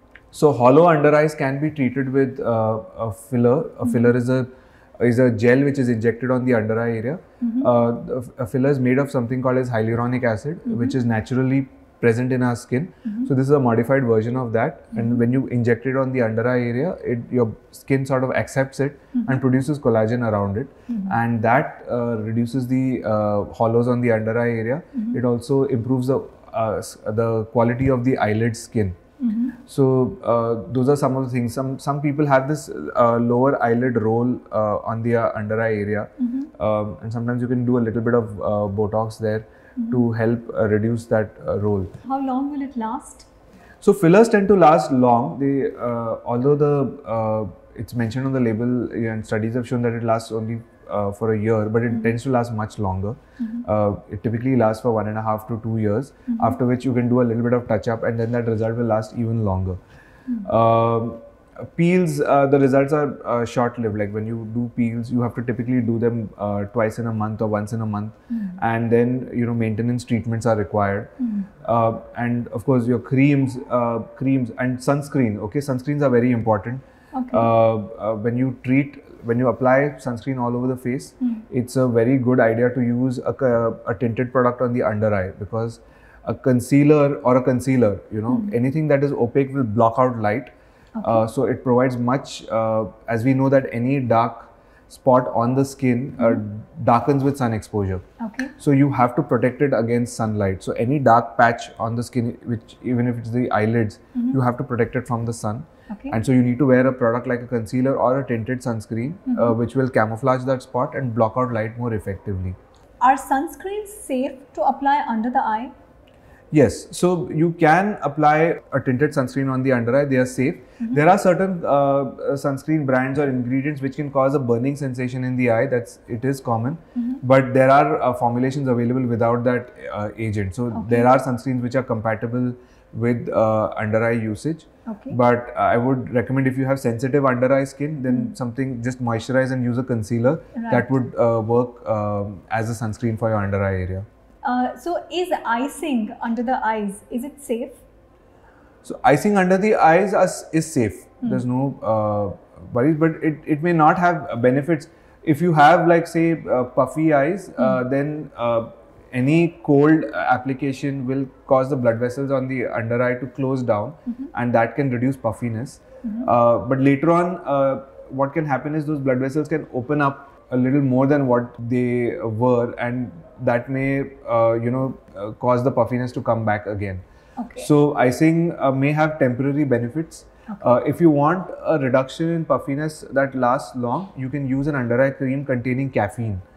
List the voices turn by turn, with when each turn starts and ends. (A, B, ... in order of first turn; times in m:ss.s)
0:00.3-0:29.0 A
0:07.4-0:07.7 B
0:10.7-0:10.9 B
0:14.9-0:15.2 B
0:20.9-0:21.2 B
0:29.2-0:29.6 B
0:29.6-0:41.9 A
0:36.2-0:36.5 B
0:39.8-0:40.0 B
0:42.0-0:43.3 B
0:43.8-0:59.8 A
0:51.9-0:52.1 B
0:53.4-0:53.6 B
0:56.3-0:56.6 B
1:00.4-1:30.5 A
1:08.3-1:08.6 B
1:11.2-1:11.5 B
1:17.1-1:17.5 B
1:28.3-1:28.5 B
1:31.0-1:31.2 B
1:31.0-1:38.0 A
1:38.2-1:38.5 B
1:38.6-1:52.6 A
1:45.9-1:46.2 B
1:49.3-1:49.6 B
1:53.0-1:55.7 B
1:56.5-2:24.0 A
2:10.7-2:11.1 B
2:14.9-2:15.2 B
2:18.1-2:18.3 B
2:20.5-2:20.9 B
2:24.4-2:27.8 B
2:28.8-2:57.0 A
2:46.0-2:46.3 B
2:57.4-2:57.7 B
2:57.6-3:06.4 A
3:00.5-3:00.8 B